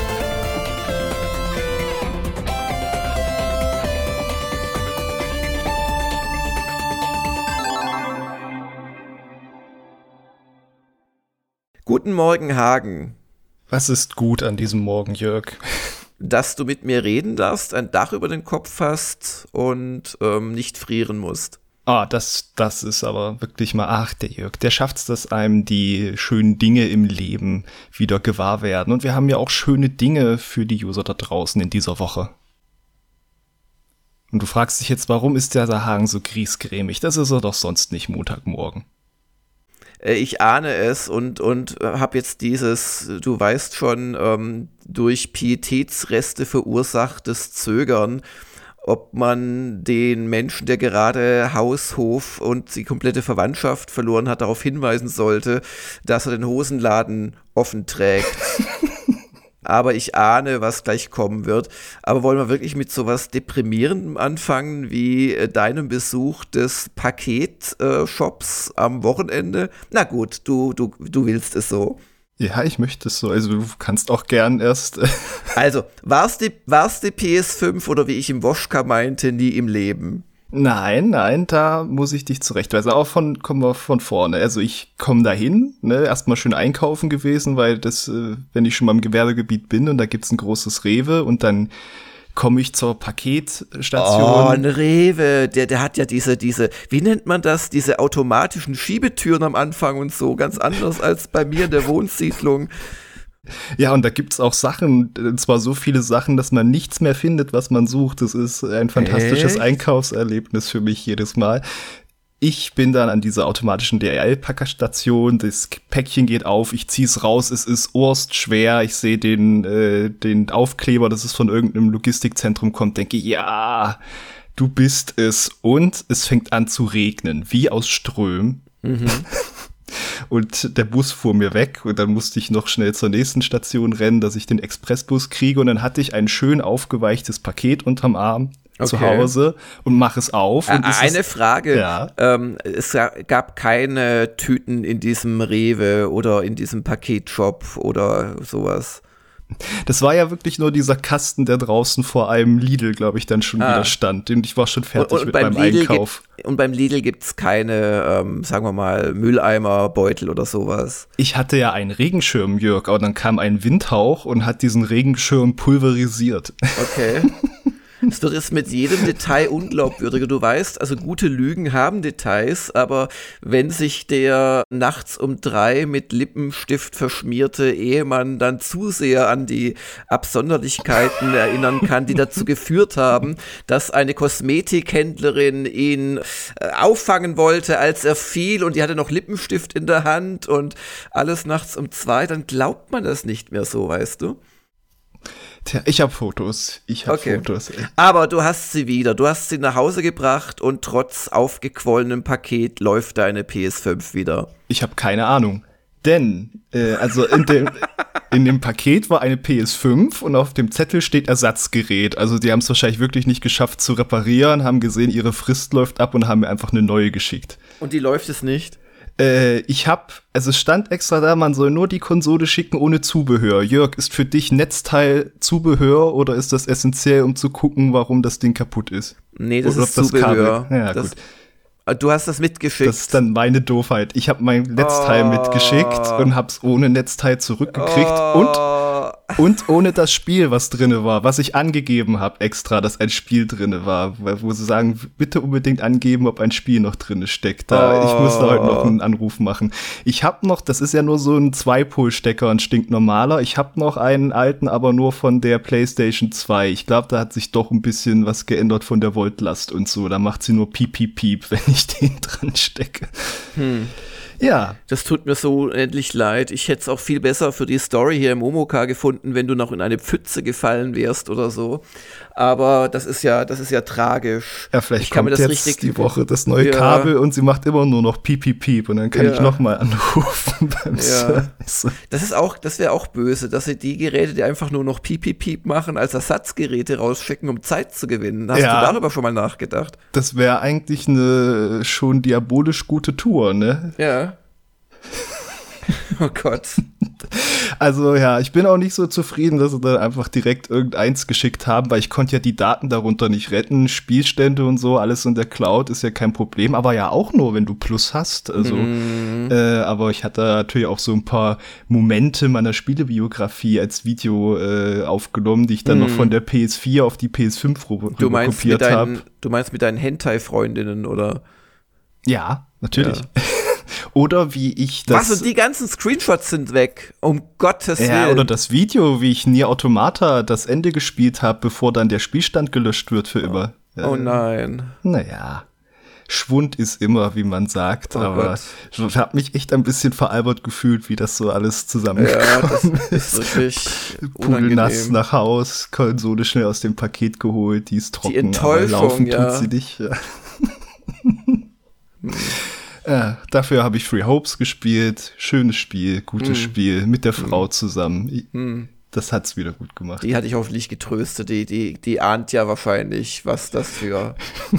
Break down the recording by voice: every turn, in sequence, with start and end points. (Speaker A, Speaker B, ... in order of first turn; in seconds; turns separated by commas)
Speaker A: 11.8-13.2, Speaker B: 13.7-15.9, Speaker A: 16.2-21.6, Speaker B: 21.9-32.3, Speaker B: 34.3-38.8, Speaker A: 40.0-48.2, Speaker A: 48.8-58.6, Speaker A: 59.6-72.0, Speaker B: 72.4-75.5, Speaker A: 75.5-80.2, Speaker B: 80.5-91.7, Speaker B: 92.3-94.6, Speaker A: 94.0-102.7, Speaker B: 103.8-111.6, Speaker A: 108.9-109.7, Speaker B: 112.4-124.0, Speaker B: 124.5-141.2, Speaker A: 128.8-129.2, Speaker A: 138.8-139.3, Speaker A: 140.7-149.0, Speaker B: 141.7-142.1, Speaker B: 149.8-156.2, Speaker A: 153.6-153.9, Speaker A: 154.9-161.1, Speaker B: 161.2-166.8, Speaker A: 166.7-167.3, Speaker A: 168.1-194.4, Speaker B: 195.6-197.9, Speaker A: 197.1-204.5, Speaker B: 204.7-217.6, Speaker A: 217.8-218.8, Speaker B: 219.2-231.2, Speaker A: 229.3-231.1, Speaker A: 231.9-233.2, Speaker B: 232.8-238.7, Speaker A: 234.8-236.3, Speaker A: 237.7-239.4, Speaker B: 239.3-263.5, Speaker A: 247.7-248.9, Speaker A: 263.5-263.9, Speaker B: 264.4-264.8, Speaker A: 264.9-277.1, Speaker B: 274.7-282.0, Speaker A: 279.1-279.5, Speaker A: 280.9-281.5, Speaker A: 282.1-290.0, Speaker B: 288.5-289.0, Speaker B: 290.1-293.9, Speaker A: 294.0-294.4, Speaker A: 295.9-296.8, Speaker B: 297.2-308.9, Speaker A: 308.6-309.5, Speaker B: 309.5-319.2, Speaker A: 315.9-316.3, Speaker A: 318.1-321.4, Speaker B: 322.3-325.5, Speaker A: 322.9-323.2, Speaker A: 325.1-328.5, Speaker B: 328.0-334.4, Speaker A: 334.0-334.9, Speaker B: 335.0-335.6, Speaker B: 336.3-351.6, Speaker A: 338.1-338.7, Speaker A: 342.1-345.2, Speaker A: 348.2-349.7, Speaker A: 352.2-352.6, Speaker B: 353.0-358.5, Speaker A: 356.4-356.7, Speaker A: 357.4-357.6, Speaker A: 358.5-358.9, Speaker B: 359.1-360.3, Speaker A: 360.2-364.4